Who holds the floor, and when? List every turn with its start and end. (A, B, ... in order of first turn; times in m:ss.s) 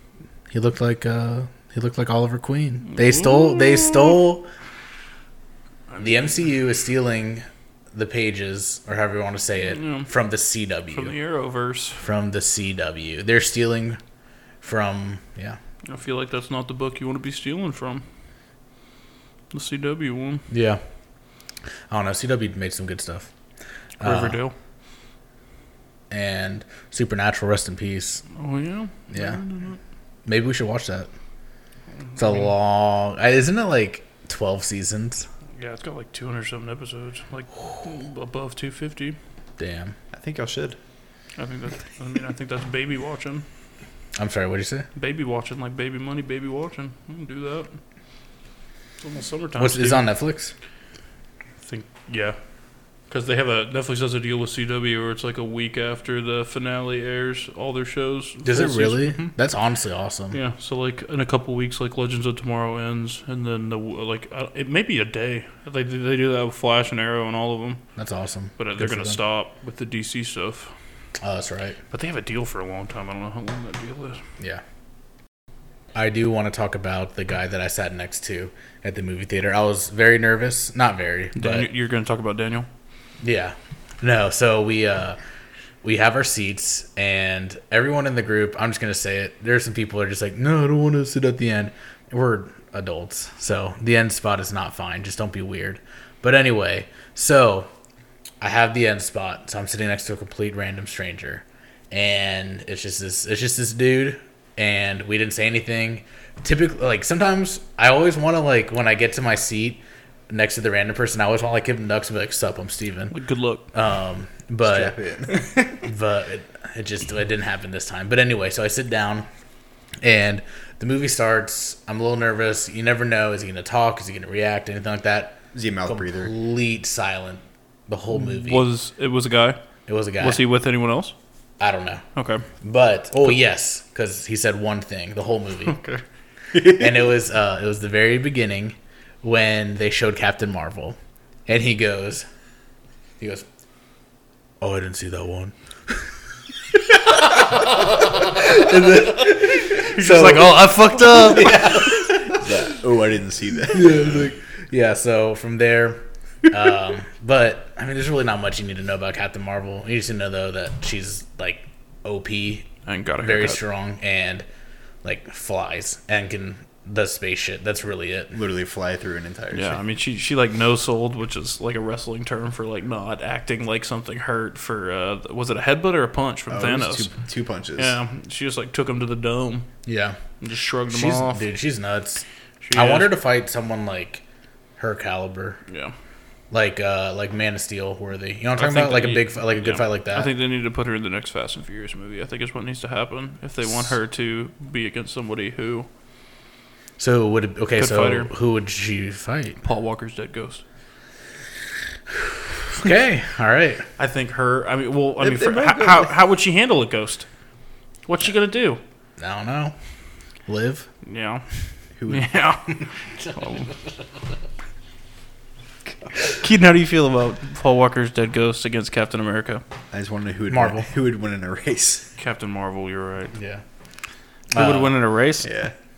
0:00.5-0:04.5 A
0:02.9-0:04.2 B
0:05.9-0:06.3 B
0:06.0-0:11.1 A
0:09.7-0:10.1 B
0:10.9-0:12.0 B
0:12.0-0:14.0 A
0:14.6-0:15.6 A
0:15.9-0:18.0 B
0:19.5-0:20.4 B
0:20.5-0:20.8 A
0:21.9-0:23.3 A
0:24.0-0:24.4 A
0:24.0-0:24.5 B
0:26.1-0:28.2 A
0:28.3-0:29.8 B
0:29.1-0:29.4 A
0:30.2-0:31.1 A
0:32.1-0:32.5 B
0:32.2-0:35.3 A
0:35.6-0:39.2 B
0:39.6-0:40.0 A
0:40.1-0:40.8 C
0:41.4-0:43.4 B
0:44.2-0:44.9 A
0:44.9-0:47.7 B
0:49.0-0:50.0 B
0:49.6-0:50.5 A
0:51.6-0:52.4 B
0:53.1-0:59.3 B
0:58.4-1:00.4 A
1:00.3-1:07.8 B
1:08.0-1:09.2 A
1:08.6-1:10.7 B
1:11.2-1:11.8 A
1:11.9-1:14.2 B
1:15.9-1:21.7 A
1:21.4-1:22.7 B
1:23.2-1:25.2 A
1:25.8-1:37.7 A
1:38.4-1:53.1 A
1:53.1-1:53.6 B
1:53.7-1:55.0 A
1:54.6-1:55.4 C
1:55.7-1:59.3 A
2:00.0-2:08.6 A
2:05.5-2:06.3 C
2:08.1-2:09.6 B
2:09.9-2:10.4 A
2:10.2-2:11.1 B
2:11.6-2:12.0 A
2:12.2-2:12.4 B
2:12.6-2:15.8 A
2:15.6-2:16.0 B
2:16.6-2:22.3 A
2:23.2-2:23.4 A
2:24.6-2:26.0 A
2:26.9-2:32.6 A
2:29.8-2:31.5 B
2:31.4-2:34.3 C
2:33.7-2:42.7 A
2:42.8-2:43.6 B
2:43.2-2:44.4 A
2:45.0-2:48.3 A
2:48.3-2:49.8 C
2:49.5-2:57.1 B
2:56.5-2:58.0 C
2:57.8-2:59.7 B
2:59.8-3:00.2 A
3:00.4-3:01.4 B
3:00.9-3:04.2 A
3:02.6-3:03.1 B
3:04.8-3:05.6 A
3:05.7-3:05.9 B
3:06.5-3:10.3 A
3:08.6-3:15.9 B
3:13.6-3:13.9 A
3:17.0-3:19.6 A
3:17.8-3:18.3 B
3:19.6-3:20.6 B
3:22.7-3:23.8 A
3:24.0-3:27.3 B
3:25.2-3:26.1 C
3:28.0-3:28.8 B
3:29.2-3:29.7 A
3:30.5-3:30.9 A
3:31.0-3:31.4 B
3:32.0-3:32.5 C
3:32.0-3:33.7 B
3:33.2-3:33.7 A
3:36.3-3:39.6 B
3:39.9-3:42.1 C
3:40.5-3:40.9 A
3:42.2-3:43.3 B
3:43.3-3:43.6 A
3:44.5-3:45.0 A
3:44.5-3:45.5 B
3:45.4-3:45.7 C